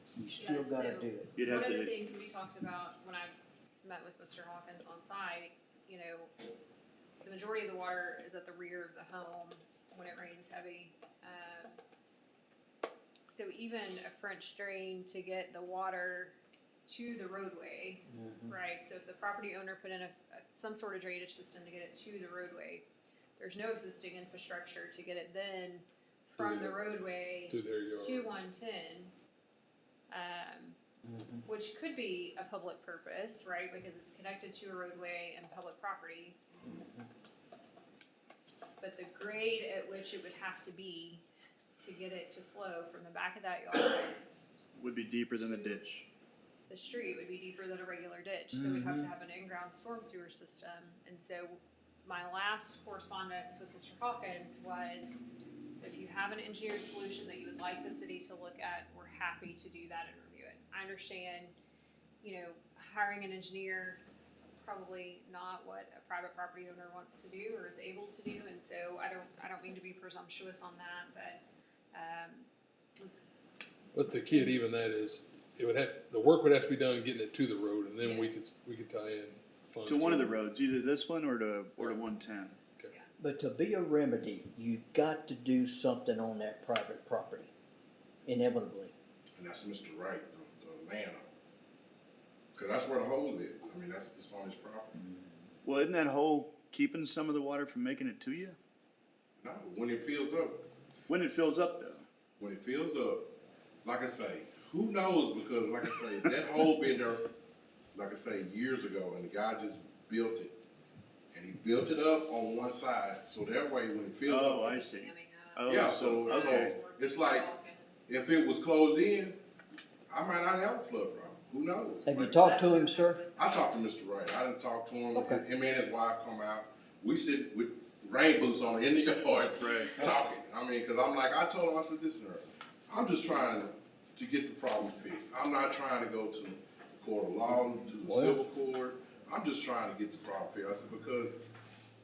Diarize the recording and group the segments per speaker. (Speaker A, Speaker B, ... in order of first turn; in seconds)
Speaker A: 0.1-1.4, 18.1-18.6, 31.0-31.5, 36.7-37.0, 83.2-87.5, 88.3-88.9, 95.0-95.3, 122.0-123.2, 125.1-125.4, 137.5-138.4
Speaker B: 0.4-6.3, 7.2-11.8, 13.3-22.9, 23.4-29.1, 30.1-30.8, 31.5-36.4, 38.8-41.2, 41.8-44.2, 45.3-45.8, 46.7-55.2, 55.8-61.5, 62.2-72.5, 78.0-78.5, 114.4-118.1, 122.2-123.3
Speaker C: 1.4-2.0, 44.8-46.1, 79.9-82.6, 95.6-98.6, 101.1-102.1, 114.3-116.8, 129.6-130.1
Speaker D: 26.4-26.8, 27.5-28.3, 73.9-80.3
Speaker E: 89.4-91.3, 92.5-95.0, 99.4-100.6, 102.4-103.3, 103.8-107.3, 107.9-110.5, 111.3-114.8, 115.7-117.5, 118.1-119.4, 120.1-122.7, 123.3-141.4